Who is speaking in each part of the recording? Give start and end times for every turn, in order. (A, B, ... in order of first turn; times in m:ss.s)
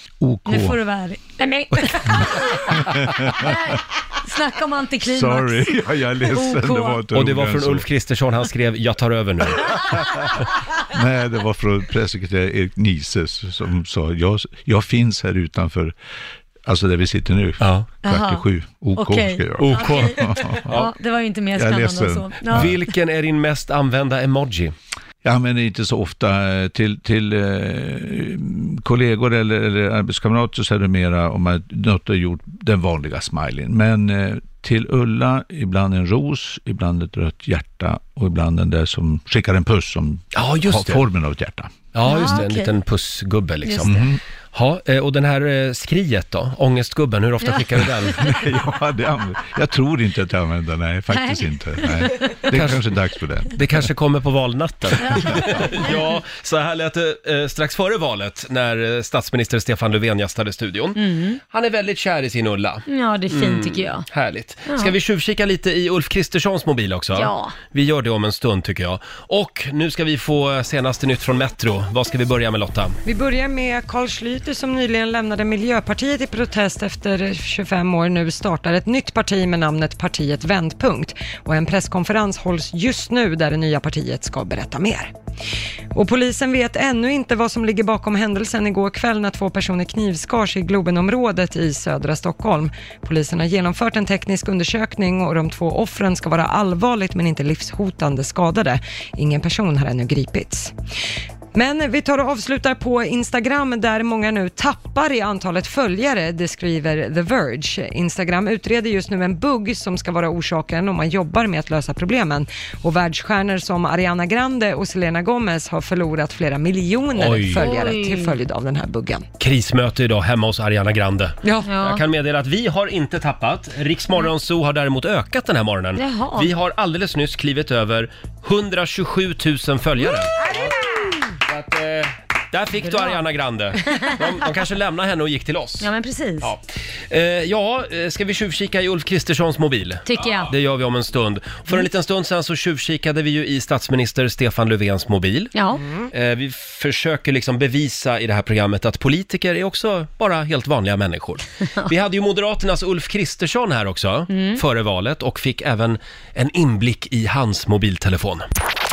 0:00.2-0:00.8 A
0:00.4-0:07.0 B
0:02.9-0:03.6 A
0:05.0-0:07.8 A
0:07.1-0:09.7 C
0:10.9-0:16.0 A
0:16.6-0:20.8 A
0:17.6-0:17.9 C
0:18.0-0:22.8 B
0:19.6-0:20.9 C
0:21.5-0:22.7 A
0:22.5-0:24.7 C
0:25.2-0:41.8 A
0:40.3-0:41.1 C
0:41.9-0:48.2 C
0:42.0-0:42.7 B
0:43.6-0:44.1 B
0:43.9-0:44.2 A
0:48.2-0:53.6 A
0:51.1-0:52.4 B
0:52.5-0:52.8 C
0:53.5-1:13.0 C
0:55.0-0:55.9 B
1:01.0-1:01.4 B
1:02.9-1:04.1 B
1:04.6-1:04.9 B
1:07.1-1:07.6 B
1:13.0-1:25.1 D
1:25.9-1:40.7 D
1:41.5-1:59.2 D
1:57.1-1:57.7 C
1:57.6-1:58.4 B
1:59.4-2:10.7 C
2:01.4-2:01.7 D
2:01.6-2:02.0 B
2:06.0-2:06.5 B
2:11.5-2:15.9 C
2:12.8-2:13.2 B
2:13.8-2:14.1 B
2:15.8-2:16.5 B
2:16.4-2:25.5 C
2:20.0-2:20.5 B
2:25.5-2:25.8 B
2:26.1-2:38.4 C
2:34.3-2:34.6 B